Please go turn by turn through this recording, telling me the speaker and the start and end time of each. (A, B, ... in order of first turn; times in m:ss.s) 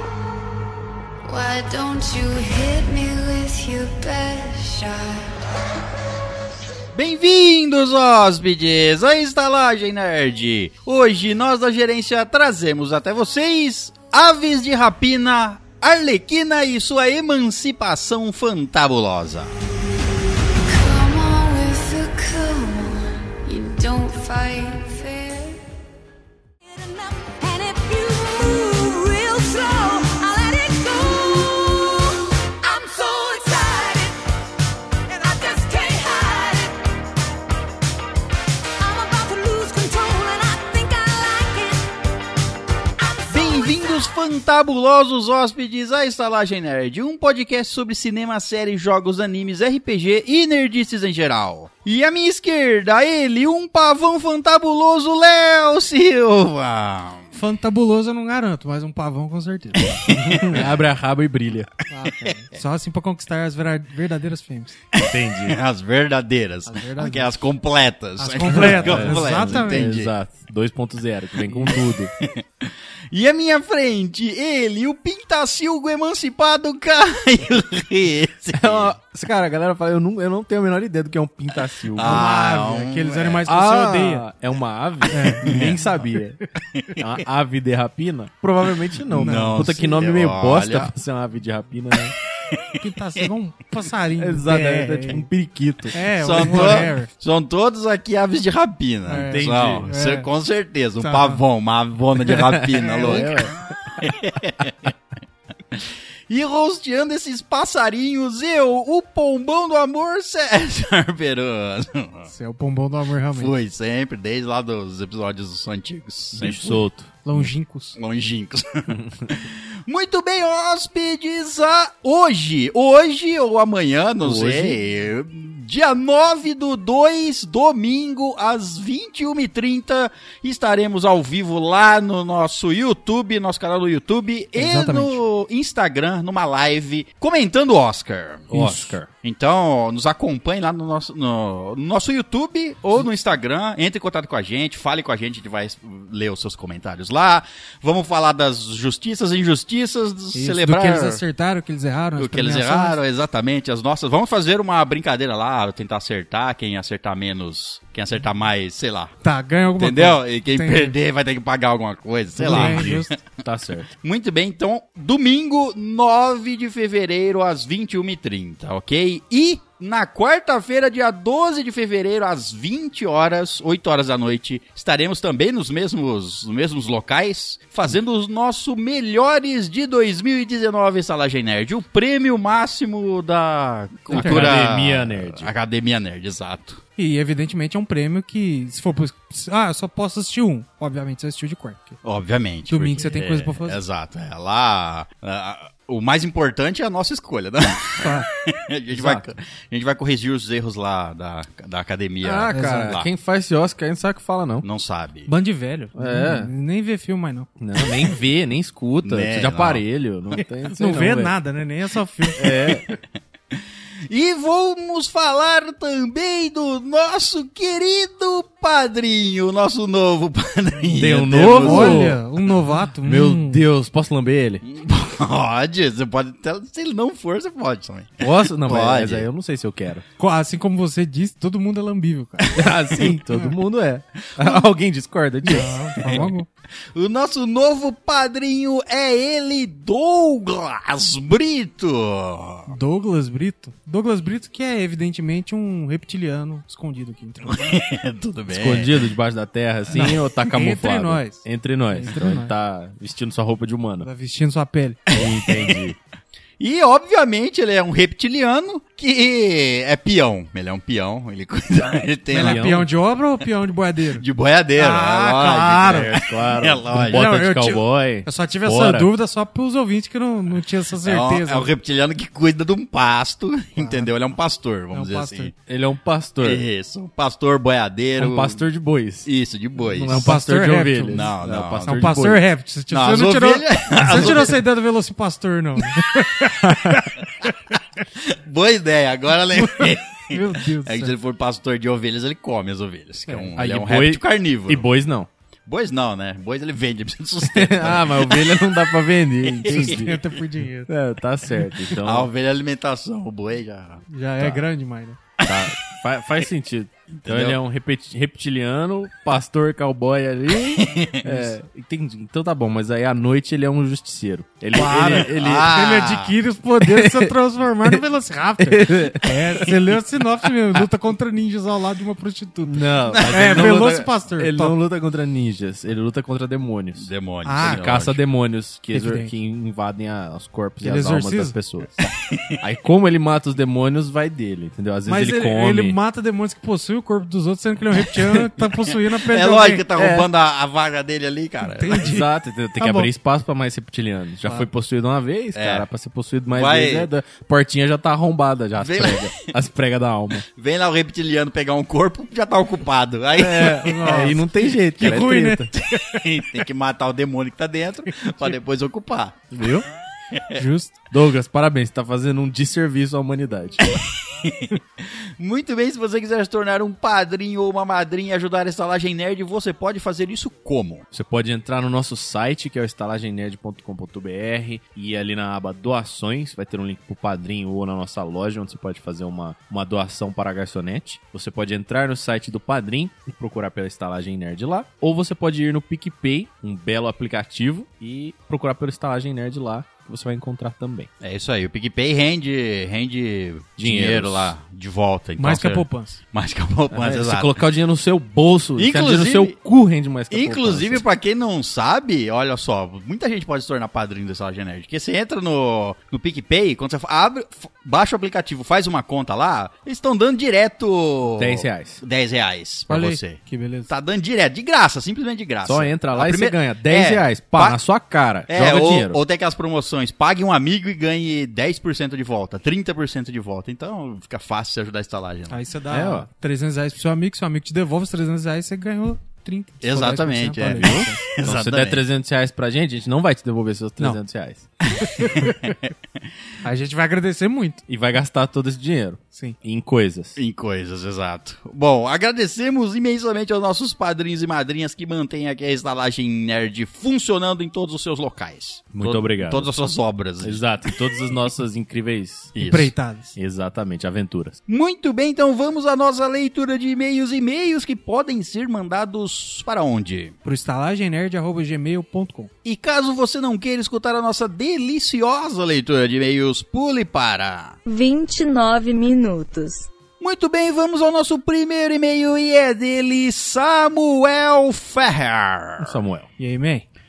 0:01.2-0:05.3 A
0:06.9-0:19.5 B
0:20.7-0:25.6 A
0:26.6-0:34.2 C
0:35.1-0:36.9 C
0:38.8-0:41.9 C
0:43.0-0:44.0 C
0:43.3-0:57.3 B
0:57.3-1:00.1 D
0:59.8-1:00.8 B
1:00.1-1:01.7 E
1:01.9-1:04.8 D
1:04.9-1:10.1 B
1:05.0-1:05.6 E
1:06.7-1:07.5 D
1:08.2-1:09.8 D
1:08.4-1:12.1 E
1:11.5-1:11.8 D
1:11.6-1:18.9 B
1:18.5-1:22.2 E
1:21.9-1:23.4 B
1:22.0-1:24.2 D
1:23.4-1:26.4 E
1:25.1-1:25.5 D
1:25.4-1:26.0 B
1:26.8-1:27.0 B
1:27.0-1:32.2 E
1:29.1-1:30.9 B
1:29.1-1:29.6 D
1:32.4-1:33.2 B
1:32.8-1:35.3 D
1:34.2-1:36.9 E
1:35.9-1:37.1 D
1:36.1-1:44.9 B
1:39.1-1:40.3 D
1:39.3-1:39.9 E
1:41.0-1:41.4 D
1:42.4-1:43.5 E
1:42.9-1:43.3 D
1:45.7-1:52.3 B
1:52.3-1:53.5 D
1:53.3-1:56.8 B
1:56.3-1:57.1 E
1:57.2-1:58.0 D
1:57.9-2:18.5 B
2:04.2-2:04.8 E
2:14.5-2:15.2 D
2:18.5-2:19.0 D
2:18.5-2:19.1 E
2:19.2-2:31.2 B
2:30.3-2:33.0 D
2:32.2-2:39.1 B
2:39.2-2:40.9 D
2:39.8-3:06.8 B
2:42.4-2:43.1 D
2:42.4-2:43.9 E
3:04.1-3:05.5 E
3:04.1-3:04.5 D
3:07.0-3:12.0 D
3:12.0-3:23.1 B
3:12.7-3:13.8 D
3:18.0-3:18.3 D
3:18.9-3:19.2 E
3:22.2-3:24.7 E
3:22.5-3:22.9 D
3:24.6-3:25.3 B
3:25.3-3:27.5 D
3:26.0-3:26.5 E
3:27.6-3:31.3 E
3:29.0-3:29.8 B
3:30.8-3:32.9 D
3:32.4-3:32.8 E
3:34.1-3:42.2 B
3:40.9-3:42.2 E
3:41.6-3:43.6 D
3:43.0-3:44.6 E
3:44.6-3:49.3 B
3:48.2-3:50.0 E
3:50.2-3:52.6 D
3:52.4-3:53.2 B
3:52.5-3:56.3 E
3:54.4-3:54.7 B
3:55.5-3:56.5 D
3:56.0-3:56.3 B
3:56.9-4:02.8 B
4:02.7-4:07.8 D
4:07.5-4:09.1 B
4:08.5-4:14.1 E
4:09.9-4:12.5 D
4:14.0-4:15.0 D
4:15.1-4:15.8 B
4:15.1-4:16.0 E
4:16.6-4:22.8 B
4:22.3-4:24.2 D
4:22.4-4:22.9 E
4:24.2-4:27.3 B
4:24.8-4:26.2 D
4:26.1-4:29.1 E
4:27.1-4:31.7 D
4:31.0-4:35.5 B
4:33.8-4:34.1 D
4:34.9-4:35.5 D
4:35.7-4:36.6 E
4:36.4-4:38.6 B
4:38.2-4:39.3 E
4:39.2-4:40.4 B
4:39.8-4:42.4 E
4:40.2-4:41.3 D
4:41.1-4:42.0 B
4:41.8-4:47.5 D
4:42.9-4:44.6 B
4:47.8-4:54.9 B
4:49.5-4:51.1 D
4:53.6-4:55.3 E
4:55.7-5:00.2 B
4:57.5-5:00.2 E
4:59.7-5:00.9 D
5:00.9-5:02.3 E
5:02.0-5:04.6 B
5:04.1-5:05.2 D
5:05.4-5:05.8 B
5:05.4-5:15.8 E
5:07.2-5:07.6 B
5:10.7-5:11.6 B
5:14.7-5:24.8 D
5:15.0-5:16.3 B
5:16.8-5:17.3 E
5:18.6-5:19.8 E
5:22.7-5:27.1 E
5:23.1-5:23.5 B
5:27.0-5:28.2 B
5:27.4-5:27.9 D
5:27.6-5:31.9 E
5:28.9-5:29.3 D
5:30.8-5:31.6 D
5:32.0-5:32.6 B
5:32.6-5:36.0 E
5:35.1-5:39.9 D
5:38.6-5:42.1 B
5:39.9-5:40.3 E
5:41.6-5:43.1 D
5:41.9-5:50.5 E
5:45.6-5:45.9 B
5:46.5-5:47.1 B
5:48.8-5:49.5 B
5:50.5-5:54.3 B
5:53.4-5:55.7 E
5:53.8-5:56.3 D
5:55.0-5:59.7 B
5:59.5-5:59.9 E
6:00.3-6:00.6 B
6:00.5-6:01.0 D
6:01.1-6:04.0 E
6:03.9-6:11.1 B
6:11.1-6:31.1 E
6:31.2-6:37.6 B
6:33.8-6:34.5 E
6:35.4-6:36.2 D
6:36.9-6:41.0 E
6:38.8-6:39.6 B
6:40.3-6:57.8 B
6:51.4-6:52.0 E
6:52.9-6:53.9 D
6:55.6-6:59.2 E
6:58.5-7:05.6 B
7:05.5-7:11.3 D
7:05.9-7:06.3 E
7:09.8-7:12.0 B
7:10.8-7:14.6 E
7:14.8-7:15.9 B
7:15.1-7:15.6 D
7:16.6-7:17.8 D
7:17.9-7:20.4 E
7:20.4-7:31.0 B
7:28.9-7:29.7 E
7:30.4-7:32.6 E
7:32.6-7:32.9 B
7:32.6-7:33.4 D
7:33.4-7:34.6 E
7:34.7-7:40.4 B
7:40.4-7:42.5 D
7:42.6-7:47.8 B
7:48.0-7:49.8 C
7:50.2-7:56.0 B
7:55.8-7:56.3 E
7:56.4-7:56.9 D